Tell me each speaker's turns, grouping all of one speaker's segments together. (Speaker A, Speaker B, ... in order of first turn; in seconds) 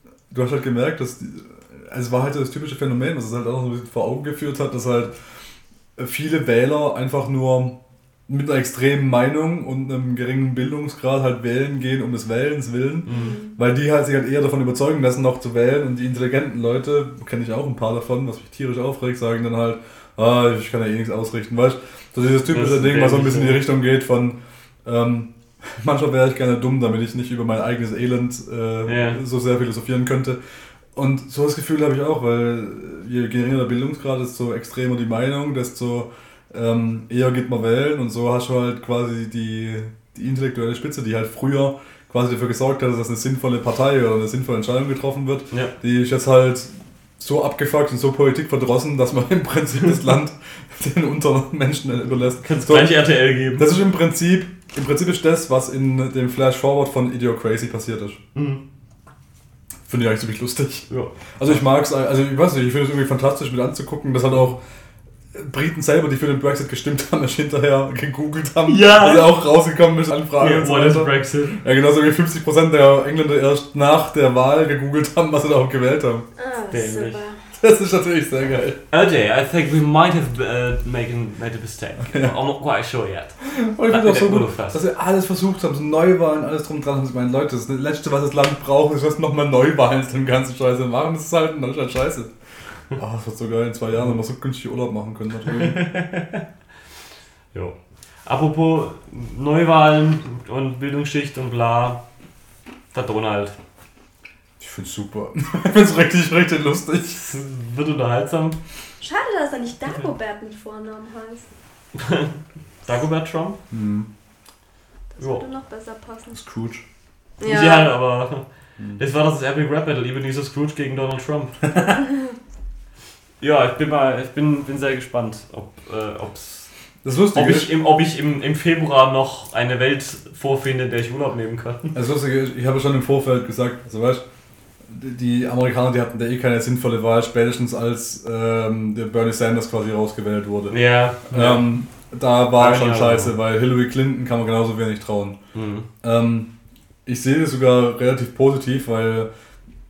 Speaker A: 0.3-5.1, 6.0-30.4, 30.9-53.0, 53.5-58.2, 59.9-64.6, 65.3-76.3, 77.6-78.8, 83.5-92.3, 93.0-95.8, 104.6-107.2, 113.7-114.1, 116.3-116.8, 127.0-127.8, 131.9-134.2, 134.9-140.8, 141.3-145.4, 146.0-146.5, 147.1-149.3
Speaker B: 13.1-13.4, 22.5-23.6, 28.9-29.2, 52.4-53.8, 58.4-58.6, 60.9-61.6, 68.7-69.3, 70.4-71.6, 76.7-77.2, 78.9-84.8, 95.5-96.5, 98.3-102.0, 102.9-103.6, 107.2-108.6, 112.0-113.6, 117.5-118.5, 119.0-121.7, 123.4-126.7, 127.3-131.9, 140.7-141.7, 142.6-143.4, 145.6-145.9
Speaker C: 13.1-13.5, 76.4-77.4, 109.0-111.5, 115.1-116.4, 117.4-117.9